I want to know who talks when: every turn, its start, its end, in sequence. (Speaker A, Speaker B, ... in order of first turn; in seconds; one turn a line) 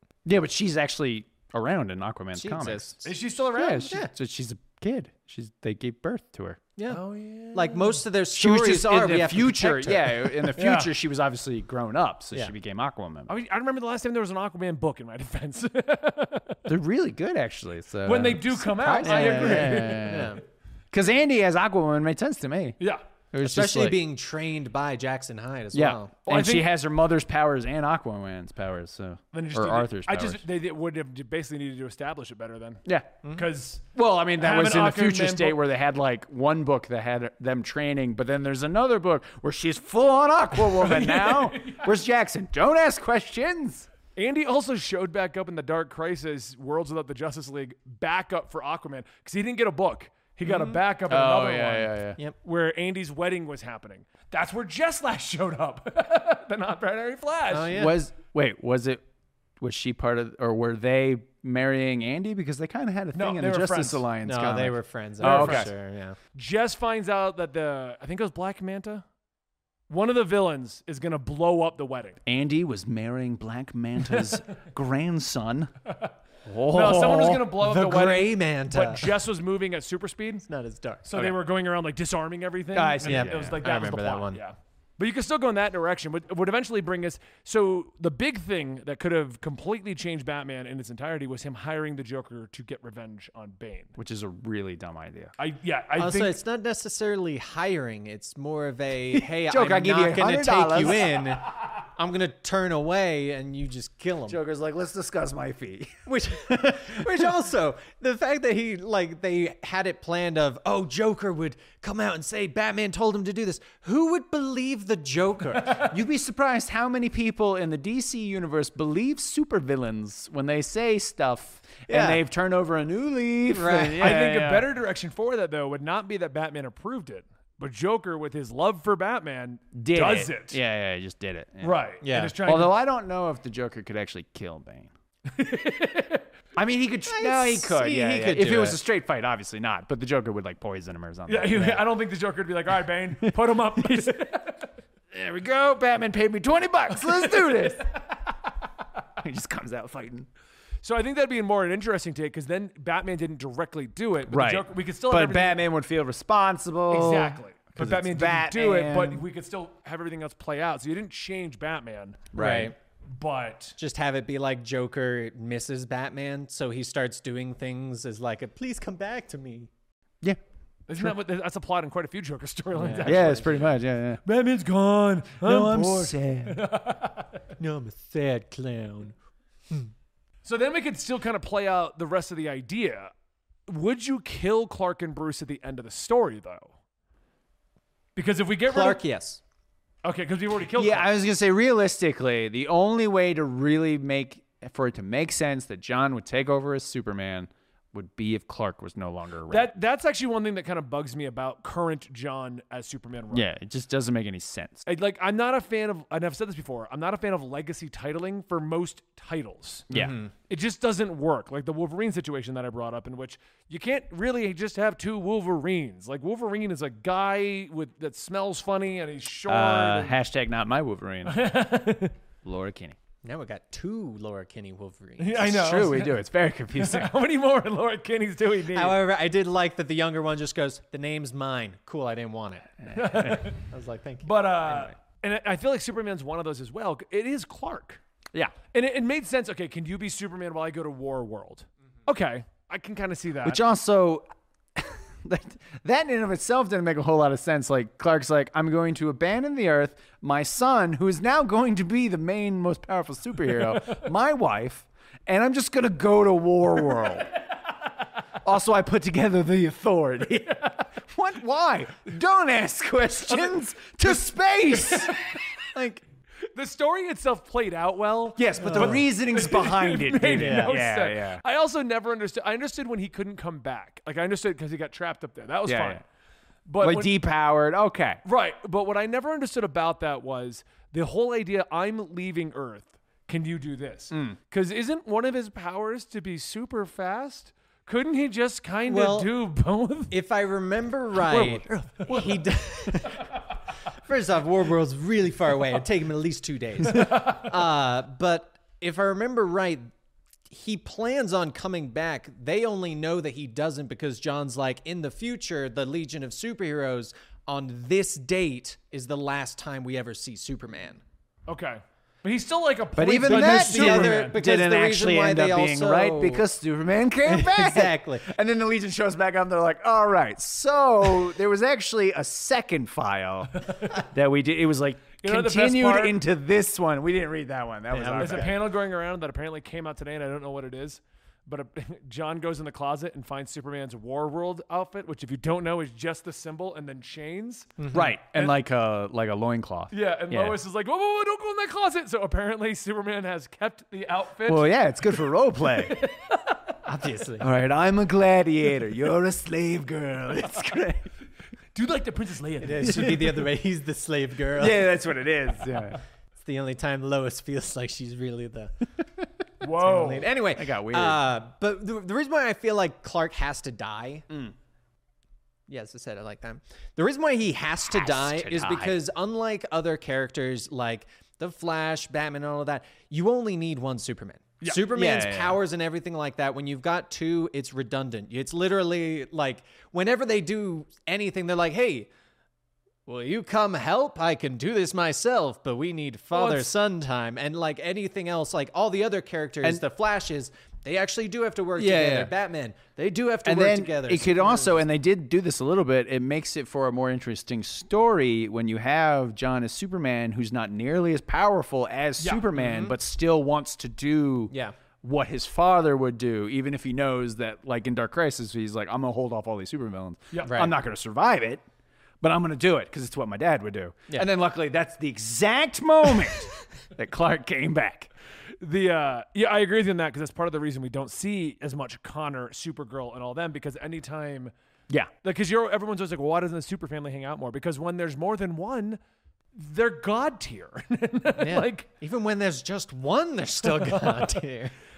Speaker A: 0.2-3.0
Speaker B: 2.3-3.2
Speaker C: 3.0-3.9
Speaker A: 3.5-6.6
Speaker B: 3.8-4.1
Speaker C: 6.9-8.0
Speaker B: 7.5-10.5
Speaker A: 8.3-13.3
Speaker C: 10.5-10.9
Speaker C: 13.3-16.7
Speaker A: 16.7-20.4
Speaker C: 18.0-20.3
Speaker B: 18.9-20.4
Speaker A: 20.9-22.8
Speaker A: 23.3-24.0
Speaker B: 23.4-26.2
Speaker A: 25.7-30.4
Speaker C: 26.3-26.7
Speaker C: 29.3-33.8
Speaker A: 32.9-33.1
Speaker A: 33.9-43.9
Speaker C: 34.4-35.6
Speaker C: 40.6-41.9
Speaker C: 44.1-57.9
Speaker B: 50.5-50.7
Speaker A: 51.1-52.2
Speaker B: 57.5-58.0
Speaker A: 57.7-59.0
Speaker A: 59.6-65.7
Speaker C: 63.1-64.0
Speaker B: 64.2-66.2
Speaker C: 65.2-65.7
Speaker C: 66.3-69.0
Speaker C: 69.9-72.2
Speaker A: 72.2-75.7
Speaker C: 75.8-76.1
Speaker A: 76.5-77.5
Speaker C: 76.7-80.5
Speaker B: 77.2-79.2
Speaker B: 80.5-81.1
Speaker C: 81.0-93.9
Speaker A: 82.7-83.6
Speaker B: 83.0-84.4
Speaker A: 94.0-95.3
Speaker C: 95.4-96.4
Speaker B: 96.0-104.4
Speaker A: 99.1-101.3
Speaker A: 104.3-105.9
Speaker B: 106.0-115.9
Speaker A: 106.5-107.2
Speaker C: 115.6-115.9
Speaker A: 115.8-124.7
Speaker B: 121.9-122.2
Speaker B: 123.5-124.2
Speaker C: 124.0-130.6
Speaker A: 129.7-131.8
Speaker C: 131.6-132.7
Speaker B: 132.0-132.4
Speaker A: 132.4-134.9
Speaker C: 135.3-136.3
Speaker A: 136.6-141.8
Speaker B: 137.1-138.8
Speaker C: 141.3-144.7
Speaker A: 145.1-147.9
Speaker C: 147.0-147.7
Speaker A: 149.2-150.3
Speaker C: 150.8-155.6
Speaker A: 154.3-159.2
Speaker C: 156.9-162.3
Speaker A: 162.3-162.7
Speaker B: 162.3-162.7
Speaker C: 163.1-163.8
Speaker B: 163.8-169.7
Speaker C: 170.9-177.4
Speaker B: 172.7-173.3
Speaker A: 173.0-174.2
Speaker A: 175.4-176.6
Speaker B: 177.6-179.1
Speaker C: 180.4-183.1
Speaker C: 183.7-186.7
Speaker C: 188.1-189.0
Speaker B: 188.7-189.4
Speaker C: 190.0-191.1
Speaker A: 190.8-199.7
Speaker C: 199.5-203.4
Speaker A: 203.3-204.8
Speaker C: 204.8-209.9
Speaker A: 209.9-210.2
Speaker B: 209.9-210.3
Speaker C: 210.5-220.2
Speaker A: 219.5-221.5
Speaker C: 221.2-222.2
Speaker A: 222.4-223.0
Speaker B: 223.2-225.5
Speaker C: 225.2-226.2
Speaker A: 225.4-227.1
Speaker C: 226.7-229.0
Speaker B: 228.7-232.9
Speaker A: 232.8-233.5
Speaker C: 232.9-233.6
Speaker B: 233.5-234.9
Speaker C: 234.2-238.0
Speaker C: 238.7-243.6
Speaker A: 243.4-257.3
Speaker A: 258.4-266.0
Speaker C: 260.4-260.8
Speaker C: 263.2-264.2
Speaker C: 264.7-265.4
Speaker C: 266.5-276.0
Speaker A: 268.4-271.4
Speaker B: 268.6-269.0
Speaker B: 270.3-270.8
Speaker A: 275.6-276.0
Speaker C: 276.6-277.1
Speaker A: 276.8-278.2
Speaker C: 278.2-290.1
Speaker A: 284.1-284.4
Speaker B: 288.9-289.3
Speaker B: 290.1-293.3
Speaker A: 291.3-292.1
Speaker C: 291.3-293.4
Speaker B: 294.1-299.9
Speaker C: 296.9-297.5
Speaker B: 300.5-311.0
Speaker C: 311.5-314.4
Speaker A: 312.9-328.5
Speaker B: 313.2-316.4
Speaker B: 317.2-318.3
Speaker C: 323.6-324.0
Speaker C: 325.2-326.2
Speaker B: 327.9-328.6
Speaker C: 328.2-338.5
Speaker B: 337.8-338.1
Speaker A: 337.9-340.6
Speaker C: 339.9-346.8
Speaker A: 344.5-346.0
Speaker B: 346.8-347.5
Speaker A: 347.4-351.0
Speaker C: 351.7-353.5
Speaker B: 352.6-354.9
Speaker A: 353.0-353.3
Speaker A: 354.5-356.0
Speaker B: 356.4-358.9
Speaker C: 359.6-360.3
Speaker B: 359.6-364.3
Speaker A: 360.5-361.2
Speaker B: 365.7-382.1
Speaker A: 367.8-368.9
Speaker C: 374.6-374.9
Speaker A: 374.8-375.6
Speaker B: 383.1-394.8
Speaker C: 386.3-386.7
Speaker A: 391.8-392.3
Speaker A: 393.4-411.6
Speaker C: 402.2-402.5
Speaker B: 402.6-402.9
Speaker C: 410.3-410.6
Speaker B: 410.4-410.7
Speaker A: 412.2-418.1
Speaker C: 418.6-424.5
Speaker C: 425.2-429.0
Speaker C: 429.5-431.9
Speaker B: 431.4-434.7
Speaker C: 433.6-434.4